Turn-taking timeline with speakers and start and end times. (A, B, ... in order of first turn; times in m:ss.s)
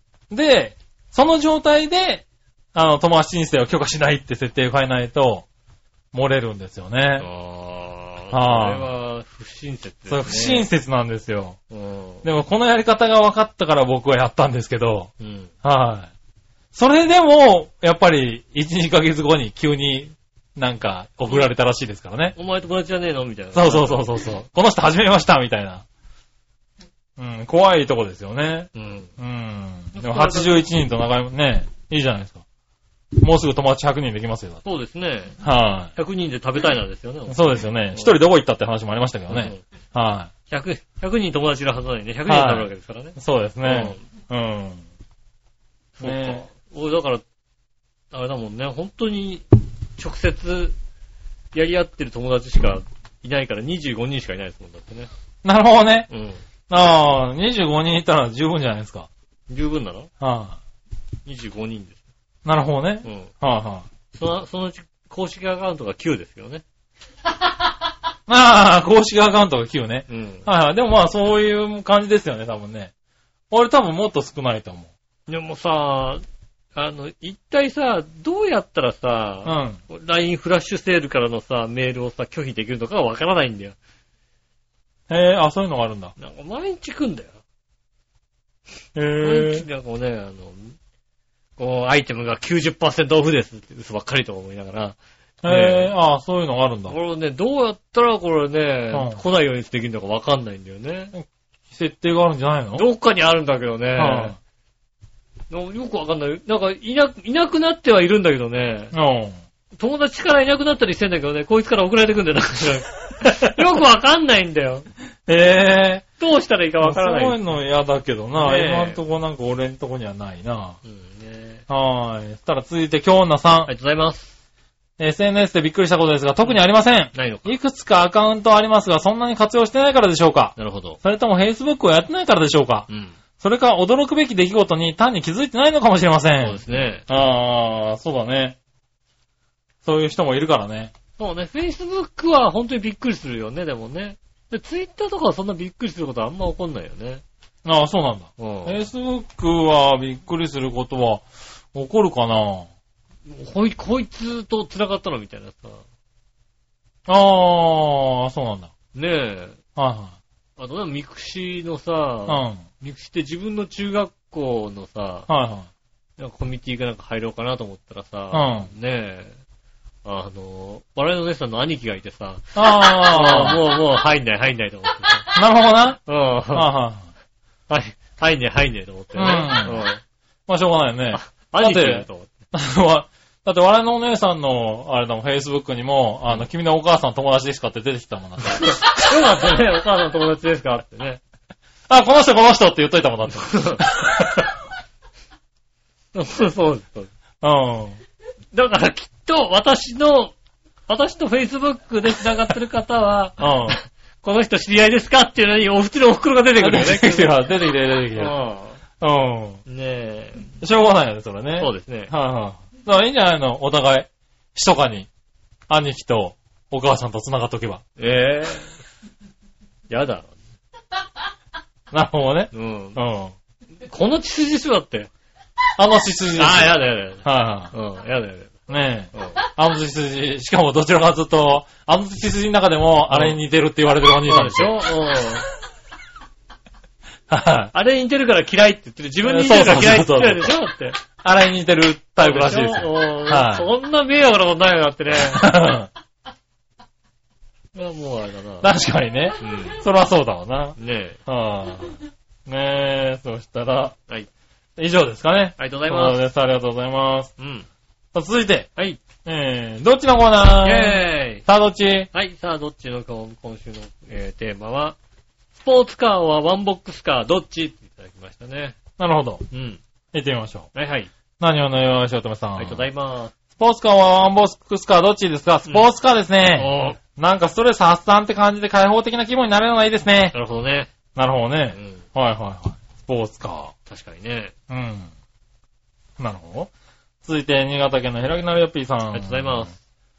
0:00.3-0:05.4 A
0:06.1-0:07.3 A
0:07.2-0:10.7 B
0:08.3-0:08.9 A
0:10.1-0:11.6 A
0:11.7-0:12.2 B
0:12.2-0:15.1 A
0:15.2-0:15.5 B
0:15.6-0:16.1 A
0:16.7-0:22.4 A
0:22.4-0:24.2 B
0:23.5-0:25.8 A
0:27.2-0:32.4 A
0:28.7-0:29.1 B
0:29.9-0:30.6 B
0:33.2-0:34.6 A
0:34.6-0:35.4 B
0:35.4-0:35.9 A
0:36.0-0:38.2 B
0:37.3-0:40.3 A
0:39.3-0:39.6 B
0:40.5-0:44.0 B
0:42.2-0:44.8 A
0:46.0-0:47.2 B
0:46.0-0:46.5 A
0:48.1-0:50.8 B
0:51.5-0:55.1 B
0:55.4-0:56.1 A
0:56.1-0:56.4 B
0:56.7-0:59.1 A
0:59.5-1:00.1 B
1:00.2-1:00.6 A
1:01.2-1:02.0 B
1:02.4-1:03.8 A
1:03.0-1:03.3 B
1:04.1-1:06.6 B
1:08.3-1:12.9 A
1:10.1-1:10.4 B
1:13.5-1:14.9 A
1:15.3-1:16.2 B
1:16.7-1:23.8 B
1:19.4-1:19.8 A
1:25.1-1:26.1 A
1:26.2-1:27.4 B
1:29.0-1:29.6 A
1:29.2-1:30.8 B
1:31.6-1:35.9 B
1:35.4-1:37.0 A
1:36.9-1:41.1 B
1:38.9-1:39.2 A
1:41.1-1:42.8 A
1:42.7-1:44.4 B
1:44.0-1:44.4 A
1:45.5-1:48.9 B
1:48.9-1:49.4 A
1:49.8-1:54.8 B
1:53.2-1:53.5 A
1:55.3-1:56.0 A
1:56.2-1:57.4 B
1:56.8-2:00.8 A
1:58.3-1:59.0 B
2:00.8-2:01.6 B
2:01.7-2:03.7 A
2:03.7-2:04.3 B
2:05.0-2:12.9 A
2:07.1-2:07.5 B
2:10.6-2:11.0 B
2:12.9-2:13.2 B
2:13.4-2:18.6 A
2:16.4-2:17.0 B
2:19.8-2:20.9 A
2:21.2-2:27.2 B
2:27.6-2:32.7 A
2:28.4-2:28.8 B
2:33.3-2:35.8 B
2:37.0-2:38.7 A
2:38.9-2:39.6 B
2:39.8-2:40.1 A
2:40.6-2:45.3 B
2:42.3-2:42.6 A
2:45.3-2:45.7 A
2:46.2-2:49.4 B
2:48.3-2:48.7 A
2:50.0-2:55.3 B
2:52.5-2:53.6 A
2:55.3-2:56.0 A
2:56.0-2:56.7 B
2:56.5-2:57.0 A
2:57.7-3:00.0 B
2:59.2-2:59.8 A
3:00.5-3:09.4 A
3:01.1-3:02.3 B
3:08.5-3:11.2 B
3:11.9-3:14.5 A
3:13.3-3:13.8 B
3:16.1-3:17.1 B
3:17.4-3:18.0 A
3:18.5-3:20.3 B
3:20.9-3:27.4 B
3:23.4-3:23.8 A
3:26.6-3:28.3 A
3:28.1-3:28.8 B
3:29.0-3:29.6 A
3:29.6-3:30.5 B
3:30.6-3:35.1 A
3:31.6-3:32.1 B
3:35.7-3:37.8 A
3:38.0-3:38.8 B
3:39.9-3:40.3 B
3:41.9-3:43.3 A
3:42.5-3:43.0 B
3:43.8-3:45.1 B
3:45.8-3:47.7 A
3:46.4-3:48.6 B
3:48.7-3:54.8 A
3:49.1-3:49.4 B
3:53.1-3:53.4 B
3:54.2-3:55.4 B
3:57.3-3:57.7 A
3:57.7-4:01.0 B
3:59.2-4:00.5 A
4:01.2-4:03.7 A
4:02.2-4:05.5 B
4:05.2-4:05.9 A
4:07.7-4:08.7 B
4:08.6-4:13.9 A
4:09.4-4:09.8 B
4:10.8-4:11.2 B
4:14.8-4:17.3 A
4:15.6-4:16.2 B
4:17.4-4:17.7 B
4:18.1-4:18.7 A
4:18.8-4:19.0 B
4:19.2-4:22.1 A
4:20.6-4:21.4 B
4:22.1-4:25.0 B
4:25.6-4:28.8 B
4:29.0-4:29.4 A
4:29.5-4:29.8 B
4:30.1-4:30.7 A
4:30.7-4:31.1 B
4:31.4-4:32.8 A
4:32.6-4:33.3 B
4:33.6-4:40.3 A
4:36.5-4:37.0 B
4:40.3-4:40.9 B
4:41.1-4:43.7 A
4:41.7-4:42.0 B
4:43.9-4:44.5 B
4:44.7-4:45.1 A
4:46.2-4:46.7 A
4:47.2-4:49.7 A
4:49.1-4:49.7 B